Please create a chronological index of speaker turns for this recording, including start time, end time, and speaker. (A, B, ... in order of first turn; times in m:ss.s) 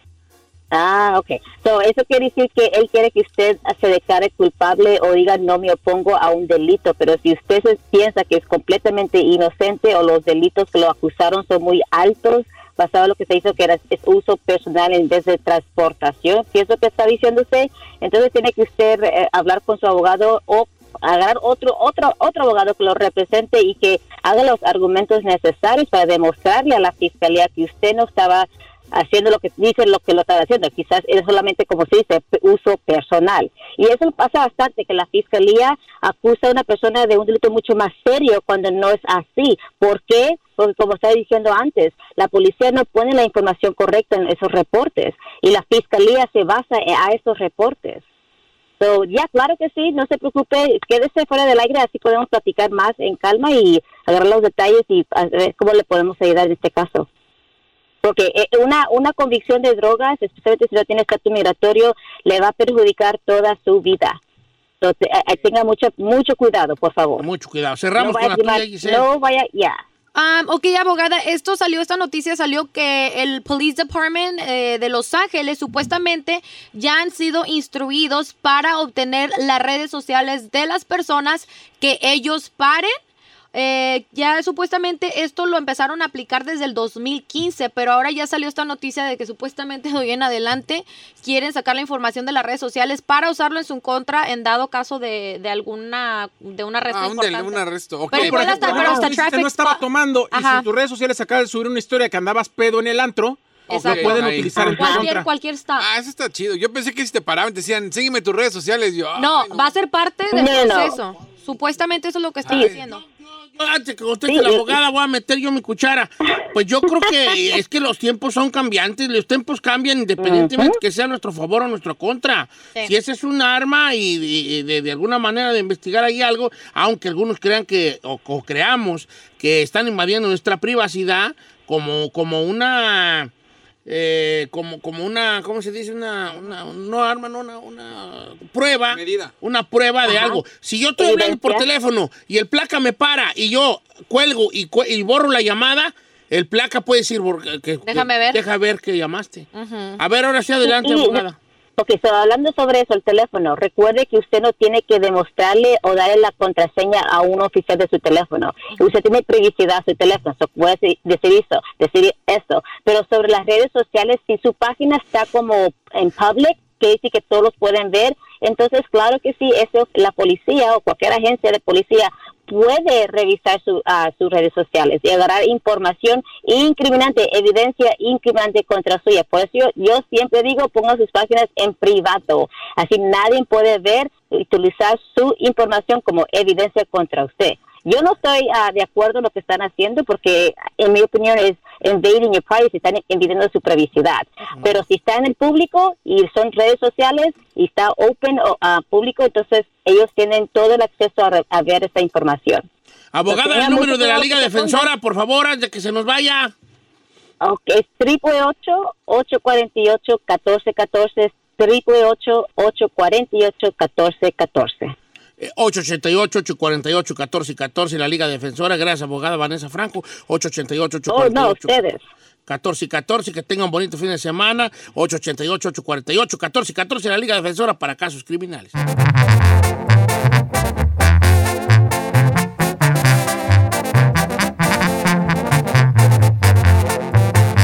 0:00.7-0:48.0 A
0:48.8-0:57.1 A
0:58.0-1:04.2 A
1:04.8-1:07.2 A
1:07.2-1:09.0 B
1:08.0-1:09.8 A
1:10.1-1:22.9 C
1:23.5-1:40.7 C
1:36.9-1:39.1 D
1:38.1-1:45.3 E
1:43.7-1:45.9 C
1:43.7-1:44.8 D
1:44.6-1:45.1 A
1:45.8-1:49.7 D
1:49.1-1:53.0 C
1:50.3-1:51.0 A
1:52.5-1:52.8 D
1:52.5-1:52.8 A
1:52.5-1:53.0 B
1:53.5-2:13.3 B
1:54.3-1:54.7 A
1:56.9-1:57.4 A
2:00.2-2:00.8 A
2:13.8-2:31.4 B
2:18.9-2:19.3 D
2:20.1-2:20.4 A
2:21.0-2:21.6 A
2:27.8-2:28.4 C
2:29.5-2:30.0 C
2:30.6-2:31.2 A
2:31.8-3:22.6 A
3:14.6-3:14.8 B
3:23.1-3:26.5 B
3:23.3-3:24.9 A
3:27.4-3:34.9 A
3:35.4-3:41.7 B
3:41.1-3:42.0 A
3:42.4-3:48.8 B